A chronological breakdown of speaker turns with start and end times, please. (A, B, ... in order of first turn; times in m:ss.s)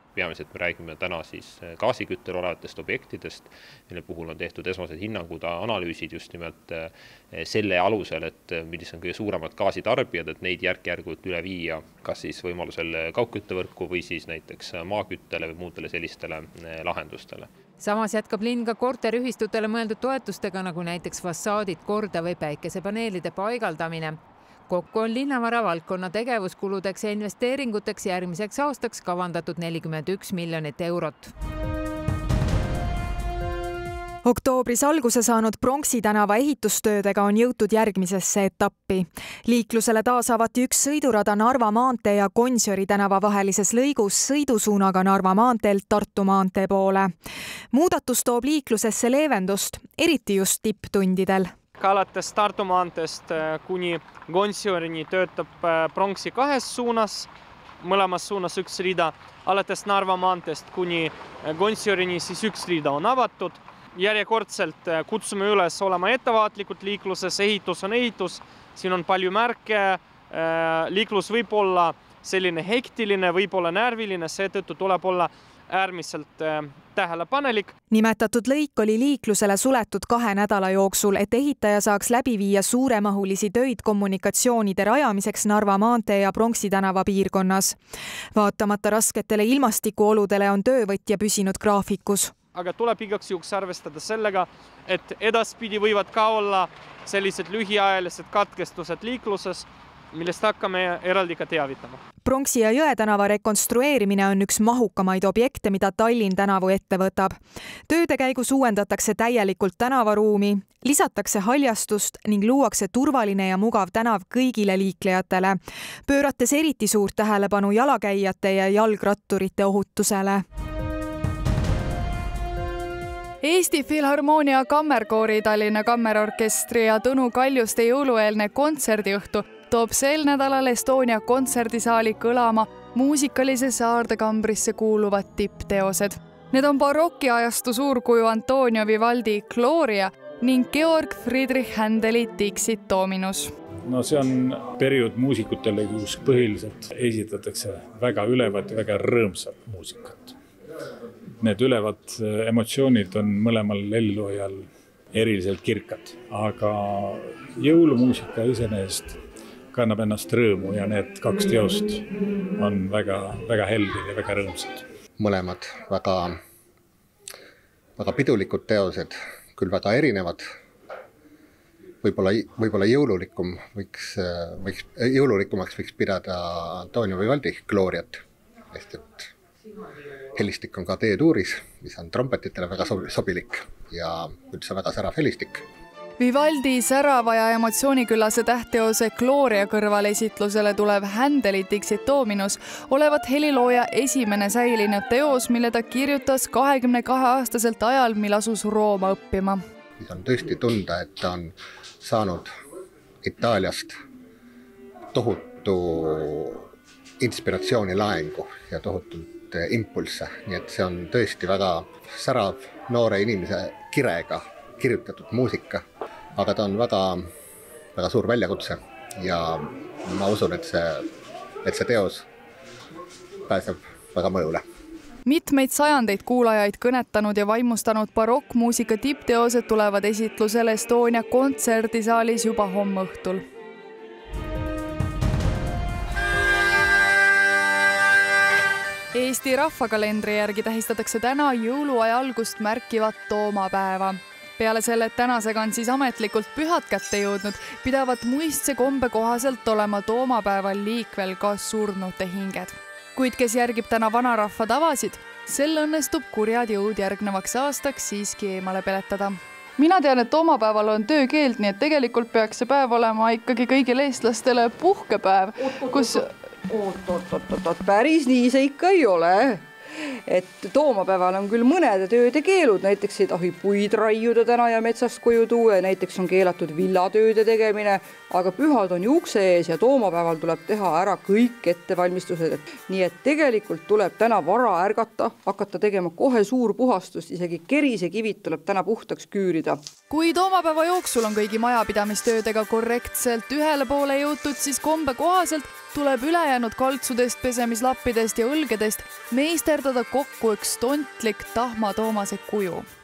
0:00.2-0:17.5 A
0:17.8-0:31.3 B
0:34.2-0:47.1 C
0:47.7-0:51.5 C
0:51.8-0:57.3 D
0:57.8-1:17.7 D
1:17.9-1:27.8 C
1:28.3-1:32.3 C
1:32.5-1:42.0 D
1:42.2-1:47.4 C
1:47.9-2:00.4 C
2:03.4-2:23.5 E
2:23.8-2:30.3 F
2:31.4-2:39.2 F
2:39.7-2:42.0 F
2:42.6-2:44.8 F
2:45.2-2:46.4 G
2:48.0-2:50.4 G
2:52.0-2:58.2 G
2:58.7-2:59.3 G
3:00.3-3:05.6 G
3:06.2-3:19.6 E
3:20.0-3:22.5 G
3:23.2-3:23.9 G
3:25.1-3:26.7 G
3:27.2-3:35.8 G
3:36.4-3:37.2 G
3:38.0-3:41.1 G
3:41.6-3:42.2 G
3:43.5-3:44.6 G
3:45.2-3:53.4 E
3:59.1-4:26.3 E
4:25.6-4:26.2 H
4:26.7-4:29.6 H
4:30.3-4:49.8 H
4:50.1-5:02.8 E